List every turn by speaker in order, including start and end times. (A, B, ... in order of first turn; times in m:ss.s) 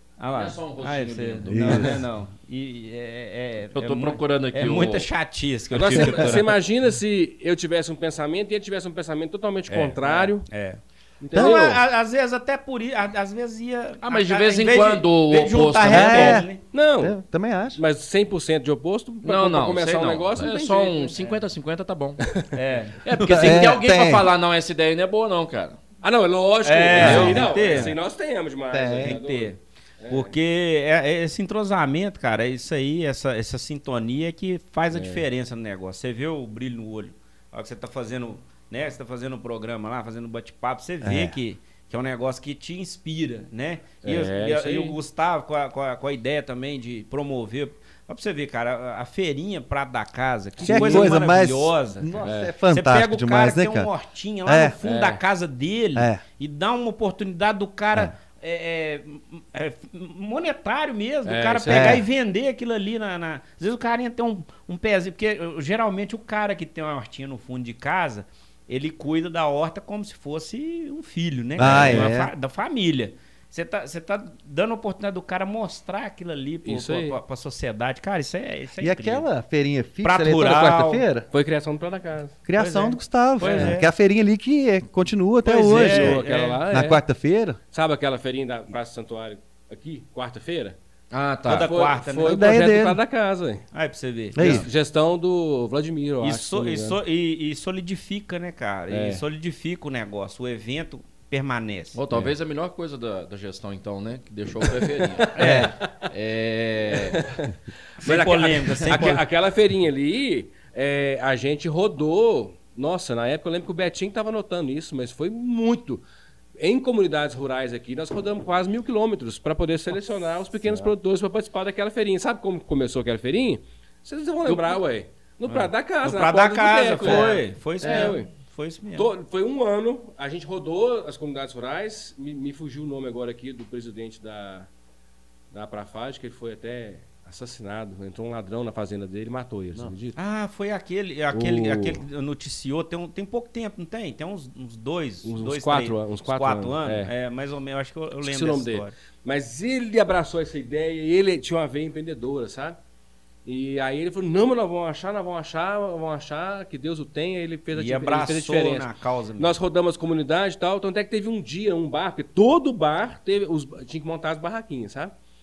0:00.2-0:06.5 A
0:00.3-0:01.9 B
0:01.5-0:02.0 C
0:03.7-0:05.1 B
0:05.7-0:10.5 D
0:05.9-0:06.4 C
0:09.7-0:10.8 A
0:11.2-0:11.8 D
0:11.3-0:11.8 C
0:11.3-0:16.6 A
0:14.0-0:16.4 B
0:15.9-0:17.8 C
0:16.7-0:17.2 D
0:17.8-0:21.4 D
0:19.2-0:22.2 B
0:22.5-0:23.7 A
0:23.0-0:25.8 B
0:23.2-0:24.3 C
0:26.0-0:30.4 D
0:26.6-0:28.0 A
0:26.9-0:28.0 C
0:27.0-0:27.4 B
0:28.7-0:29.2 C
0:29.0-1:19.3 A
0:34.9-0:35.2 D
0:41.0-0:41.4 C
0:44.0-0:45.0 D
0:50.6-0:51.2 D
0:50.6-0:53.9 C
0:52.2-0:52.5 D
0:54.4-0:54.8 C
0:54.8-0:55.2 D
0:56.0-0:56.2 C
1:01.2-1:02.0 D
1:01.7-1:02.0 C
1:11.6-1:12.3 C
1:11.6-1:12.1 D
1:16.6-1:17.2 D
1:18.8-1:21.3 C
1:20.0-1:21.0 A
1:21.3-1:22.4 D
1:22.5-1:27.6 C
1:22.6-1:23.9 A
1:23.4-1:23.8 D
1:25.4-1:27.0 D
1:25.6-1:26.6 A
1:27.7-1:30.8 D
1:31.1-1:31.7 B
1:31.5-1:32.6 A
1:31.5-1:33.7 D
1:32.3-1:33.0 C
1:33.7-1:34.7 A
1:34.4-1:34.7 C
1:34.4-1:37.0 D
1:36.2-1:42.0 A
1:38.9-1:39.2 D
1:41.9-1:47.2 B
1:45.0-1:45.7 D
1:45.4-1:45.8 C
1:47.1-1:56.0 D
1:48.0-1:49.2 A
1:56.6-2:08.3 D
2:04.5-2:04.8 B
2:05.5-2:09.1 A
2:09.0-2:14.7 D
2:15.5-2:20.2 D
2:20.2-2:28.9 A
2:21.3-2:22.0 D
2:25.2-2:27.1 D
2:28.2-2:32.8 D
2:33.4-2:45.1 D
2:37.7-2:39.5 A